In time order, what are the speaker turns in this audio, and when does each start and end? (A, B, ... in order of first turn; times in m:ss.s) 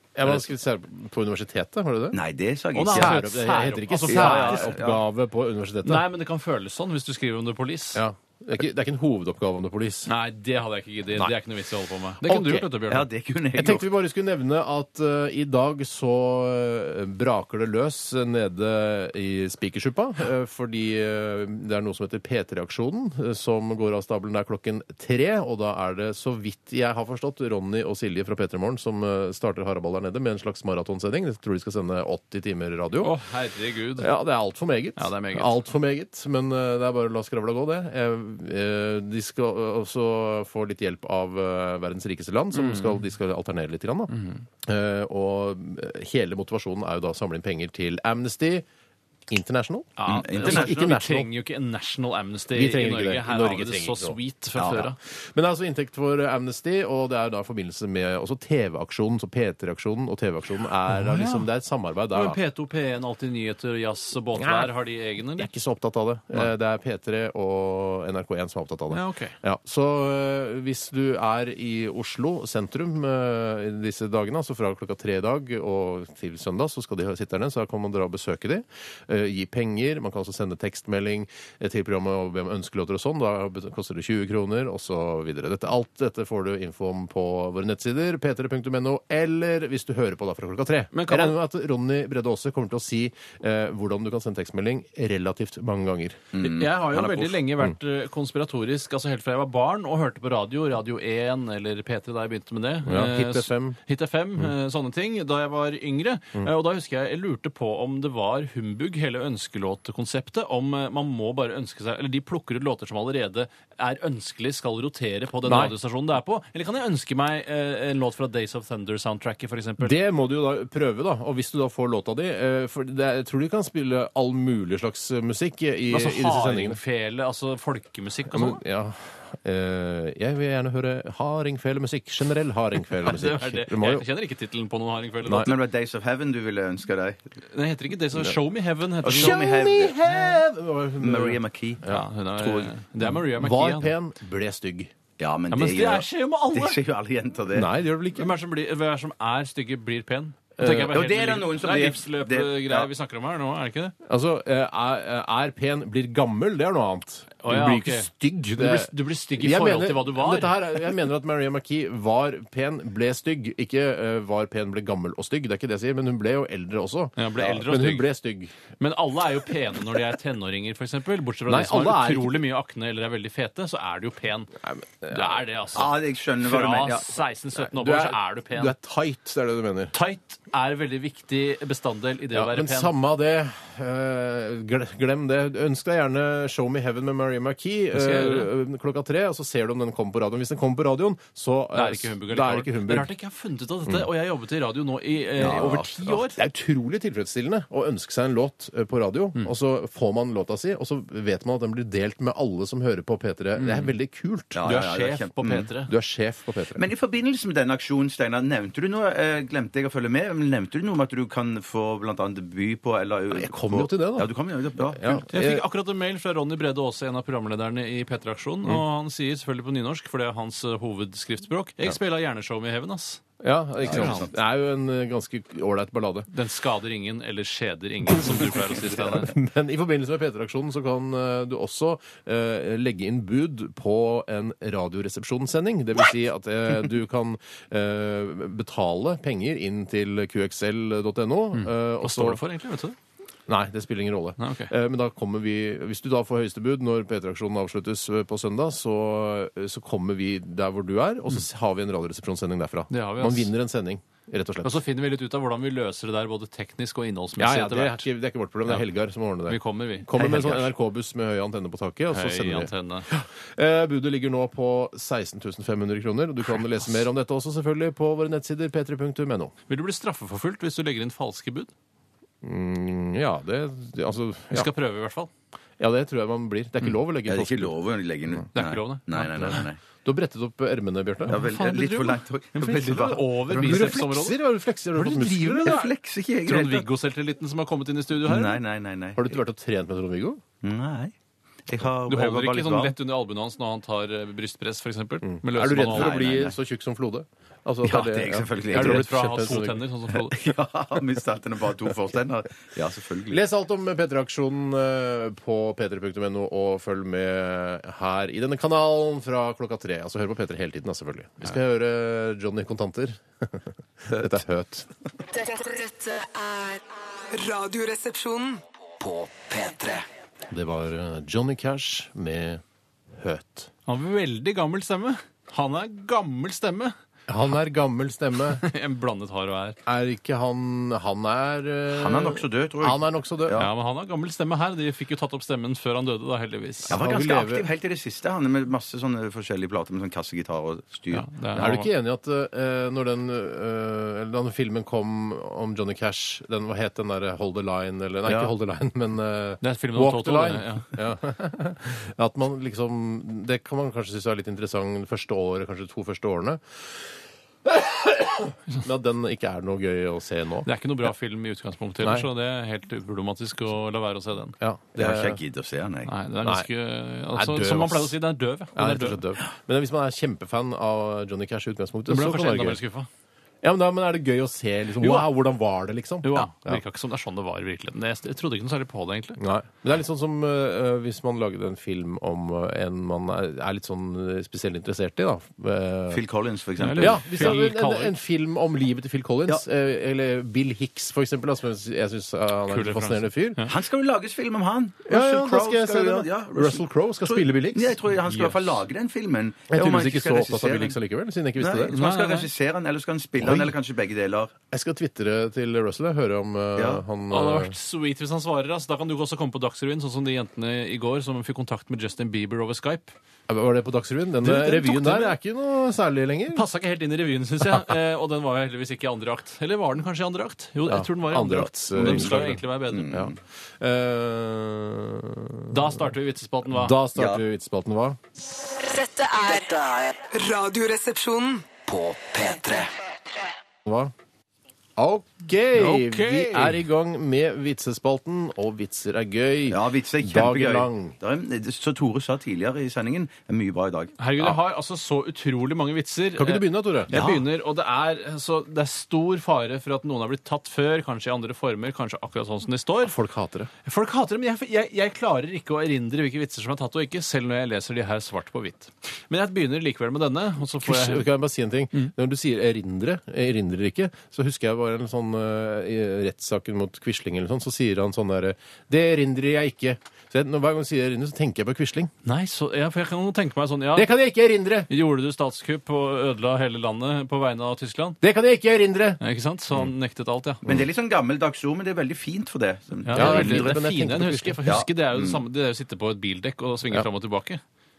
0:00.2-0:02.2 A
0:02.1-0:03.3 B
0:02.7-0:04.8 C
0:02.9-0:06.0 A
0:04.1-0:05.0 B
0:05.8-0:08.0 C
0:07.9-0:10.1 A
0:10.0-0:13.1 C
0:12.2-0:12.6 A
0:12.5-0:13.9 B
0:13.5-0:33.1 A
0:33.0-0:34.1 C
0:34.0-0:44.1 A
0:35.0-0:35.6 C
0:42.5-0:43.0 C
0:44.1-0:44.4 C
0:44.6-0:48.6 A
0:49.3-0:51.3 A
0:50.0-0:55.0 C
0:50.1-0:50.7 B
0:52.5-0:54.2 A
0:54.6-0:54.8 B
0:55.1-1:02.4 A
1:00.9-1:01.4 C
1:02.1-1:05.5 C
1:04.4-1:04.7 A
1:05.4-1:36.3 A
1:08.9-1:09.3 C
1:30.9-1:31.4 C
1:36.3-1:37.4 B
1:36.4-2:00.0 C
1:42.8-1:43.8 A
1:55.4-1:55.7 A
1:59.8-2:06.8 A
2:05.9-2:08.6 C
2:08.3-2:14.0 A
2:13.0-2:15.6 C
2:15.4-2:17.2 B
2:17.5-2:19.4 C
2:19.0-2:20.1 B
2:19.0-2:22.0 A
2:21.0-2:22.7 B
2:21.9-2:23.9 C
2:23.0-2:24.9 A
2:25.2-2:27.7 B
2:25.5-2:26.8 C
2:27.5-2:28.3 A
2:28.1-2:33.9 C
2:30.6-2:30.9 A
2:30.6-2:32.9 B
2:34.0-2:48.5 A
2:37.4-2:40.6 C
2:47.2-2:48.1 C
2:48.8-2:54.5 C
2:51.5-2:52.4 A
2:54.6-2:55.4 A
2:55.1-2:58.7 C
2:55.7-2:57.2 B
2:57.6-2:59.9 A
2:59.9-3:02.9 C
3:02.3-3:13.1 A
3:07.9-3:08.5 C
3:11.7-3:16.4 C
3:15.4-3:16.0 B
3:15.4-3:24.6 A
3:23.6-3:23.9 C
3:24.5-3:25.7 B
3:24.6-3:25.9 C
3:25.9-3:26.8 A
3:26.8-3:35.2 B
3:33.3-3:34.3 A
3:34.9-3:35.6 A
3:35.3-3:43.2 C
3:43.4-3:46.3 A
3:43.8-3:44.3 B
3:43.9-3:44.2 C
3:46.3-3:49.3 C
3:48.1-4:02.4 A
4:01.5-4:03.0 C
4:03.5-4:14.8 A
4:04.4-4:04.7 C
4:12.9-4:13.5 C
4:14.6-4:18.0 C
4:17.4-4:29.5 A
4:19.5-4:20.1 C
4:20.2-4:20.6 B
4:22.1-4:23.1 C
4:29.7-4:31.7 C
4:32.4-4:34.7 A
4:34.5-4:35.3 C
4:35.8-4:37.7 A
4:37.3-4:39.8 B
4:38.5-4:39.6 C
4:40.0-4:41.4 A
4:41.3-4:44.0 B
4:41.3-4:44.4 C
4:43.5-4:45.8 A
4:45.0-4:45.9 C
4:45.1-4:46.9 B
4:46.4-4:48.6 C
4:48.2-4:49.4 B
4:49.2-4:50.4 A
4:50.6-4:51.1 B
4:51.7-4:52.9 B
4:52.1-4:56.3 C
4:55.2-4:59.8 A
4:55.9-4:56.6 B
4:57.8-4:59.1 B
4:58.7-5:00.4 C
5:00.1-5:03.4 B
5:03.3-5:14.9 A
5:15.3-5:18.6 D
5:19.0-5:20.0 E
5:20.5-5:22.6 A
5:23.2-5:23.7 A
5:23.8-5:27.0 C
5:27.3-5:28.6 A
5:28.5-5:29.8 C
5:29.8-5:33.6 A
5:31.9-5:33.7 B
5:33.6-5:37.0 C
5:36.9-5:37.6 A
5:36.9-5:41.3 B
5:41.1-5:41.9 C
5:41.5-5:57.0 A
5:48.2-5:48.5 B
5:49.6-5:50.9 C
5:57.6-6:00.7 A
6:00.6-6:04.6 C
6:04.6-6:05.4 A
6:05.0-6:06.1 B
6:06.0-6:09.2 C
6:06.4-6:06.7 A
6:07.3-6:08.2 A
6:08.7-6:12.8 A
6:12.1-6:13.1 C
6:13.6-6:16.8 A
6:15.0-6:15.3 C
6:16.2-6:19.4 C
6:19.4-6:26.2 A
6:26.1-6:27.6 B
6:26.8-6:28.2 C
6:27.0-6:33.6 A
6:32.7-6:33.7 C
6:33.7-6:41.0 B
6:35.1-6:38.0 A
6:38.3-6:38.7 C
6:39.7-6:41.9 A
6:41.6-6:44.5 B
6:41.9-6:42.5 C
6:43.4-6:43.7 A
6:44.7-6:47.7 A
6:46.8-6:47.0 B
6:47.3-6:53.1 C
6:53.5-6:56.6 A
6:54.4-6:55.4 C
6:56.5-7:03.2 C
7:00.8-7:06.0 A
7:01.9-7:03.3 B
7:05.7-7:07.0 C
7:06.7-7:08.2 A
7:07.1-7:07.4 B
7:08.8-7:09.8 D
7:09.5-7:10.2 E
7:10.3-7:11.7 D
7:11.9-7:12.9 E
7:13.8-7:14.1 A
7:15.0-7:21.2 A
7:15.7-7:16.8 C
7:19.7-7:24.1 B
7:24.2-7:33.1 C
7:26.4-7:27.1 A
7:27.1-7:27.4 B
7:33.0-7:33.7 A
7:33.8-7:41.3 C
7:40.8-7:52.1 A
7:52.2-7:54.1 C
7:53.9-7:54.9 A
7:54.9-7:58.2 C
7:58.2-7:59.2 A
7:59.2-8:00.6 C
8:00.6-8:03.8 B
8:03.0-8:07.6 C
8:03.1-8:04.6 A
8:04.6-8:05.4 B